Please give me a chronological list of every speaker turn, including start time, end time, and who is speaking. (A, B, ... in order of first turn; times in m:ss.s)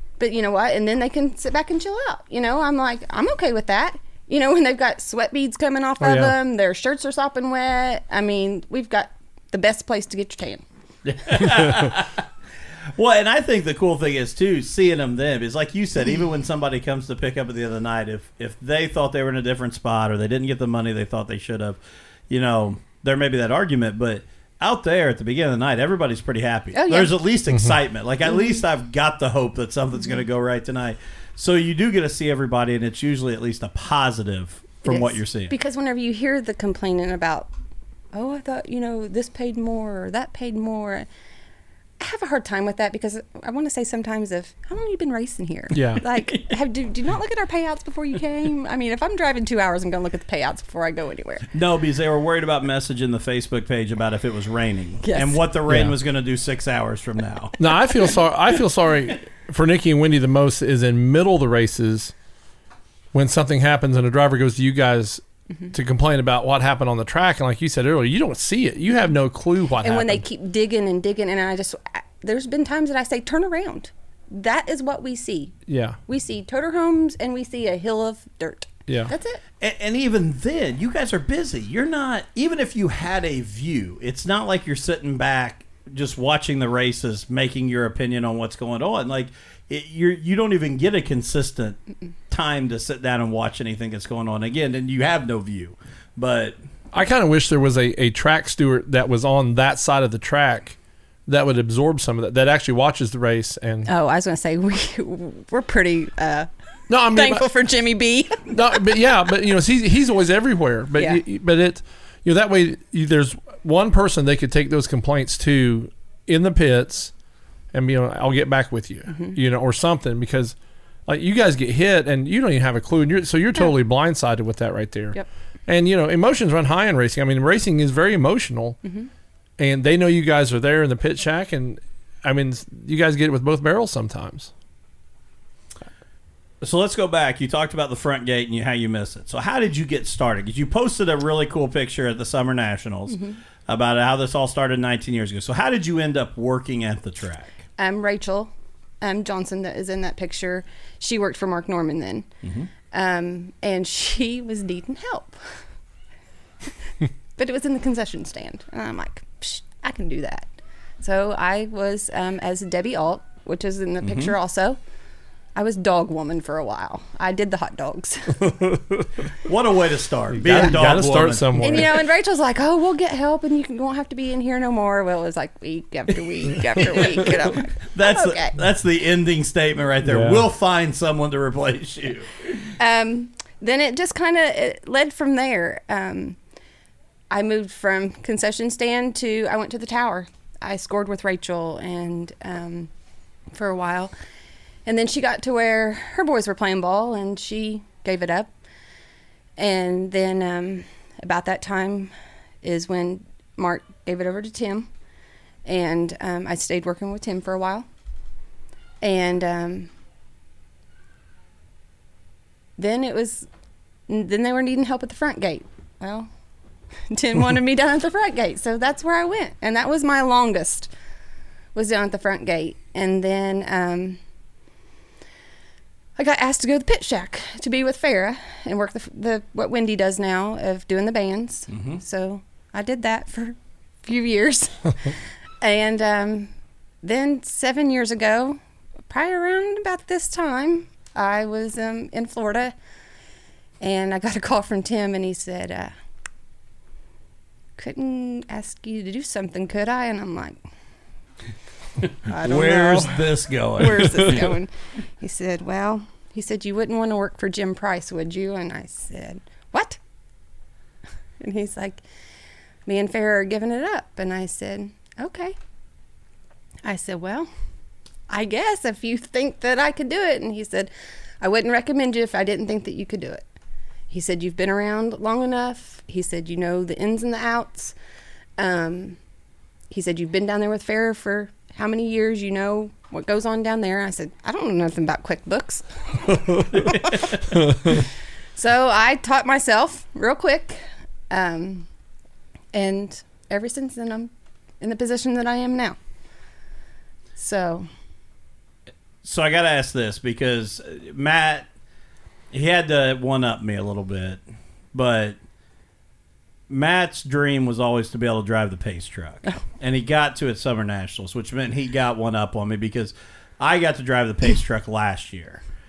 0:00.2-0:10.6 A
0:06.0-0:06.3 B
0:11.0-0:12.2 C
0:13.0-0:21.8 C
0:22.3-0:35.5 C
0:26.7-0:27.1 A
0:27.5-0:27.7 B
0:34.8-0:37.5 A
0:38.1-0:41.1 A
0:42.0-0:51.4 A
0:45.7-0:46.0 B
0:51.5-0:57.6 C
0:55.0-0:55.4 A
0:55.7-0:55.9 B
0:57.6-1:02.1 B
1:03.1-1:10.2 B
1:09.8-1:19.4 A
1:15.7-1:16.0 B
1:18.9-1:19.1 B
1:19.6-1:36.6 C
1:36.9-1:43.9 B
1:43.8-1:46.5 A
1:46.9-1:47.4 B
1:47.1-1:49.0 A
1:48.5-1:57.1 B
1:51.0-1:51.2 A
1:57.7-2:00.6 B
1:59.1-1:59.4 A
2:01.1-2:08.8 B
2:08.8-2:09.1 A
2:09.6-2:14.5 B
2:16.6-2:27.6 C
2:27.8-2:32.3 A
2:32.4-2:32.7 C
2:32.9-2:35.6 A
2:37.4-2:40.5 A
2:41.0-2:44.8 A
2:44.0-2:44.3 C
2:45.5-2:48.6 A
2:48.4-2:49.1 B
2:49.4-2:51.8 C
2:50.3-2:52.0 B
2:51.6-2:58.5 A
2:57.9-3:02.7 C
3:00.0-3:00.4 B
3:02.8-3:06.4 A
3:07.3-3:12.9 A
3:13.5-3:14.1 A
3:14.8-3:18.5 A
3:19.6-3:24.9 A
3:25.6-3:27.8 A
3:29.0-3:29.9 A
3:32.8-3:33.5 A
3:34.1-3:36.3 A
3:37.1-3:40.9 A
3:41.7-3:44.2 A
3:46.2-3:56.5 A
3:51.7-3:52.0 C
3:57.0-4:02.7 A
4:03.8-4:05.9 A
4:07.8-4:10.6 A
4:12.0-4:14.5 C
4:12.3-4:20.0 A
4:21.4-4:22.0 A
4:22.8-4:25.6 A
4:26.8-4:27.5 A
4:28.3-4:30.9 A
4:31.4-4:33.4 A
4:34.1-4:37.9 A
4:38.6-4:39.2 A
4:39.9-4:47.2 A
4:46.7-4:47.4 C
4:48.6-4:51.9 A
4:52.7-4:56.0 A
4:57.4-4:57.9 A
4:59.2-5:01.7 C
5:02.5-5:04.4 C
5:04.9-5:05.4 C
5:06.7-5:15.6 C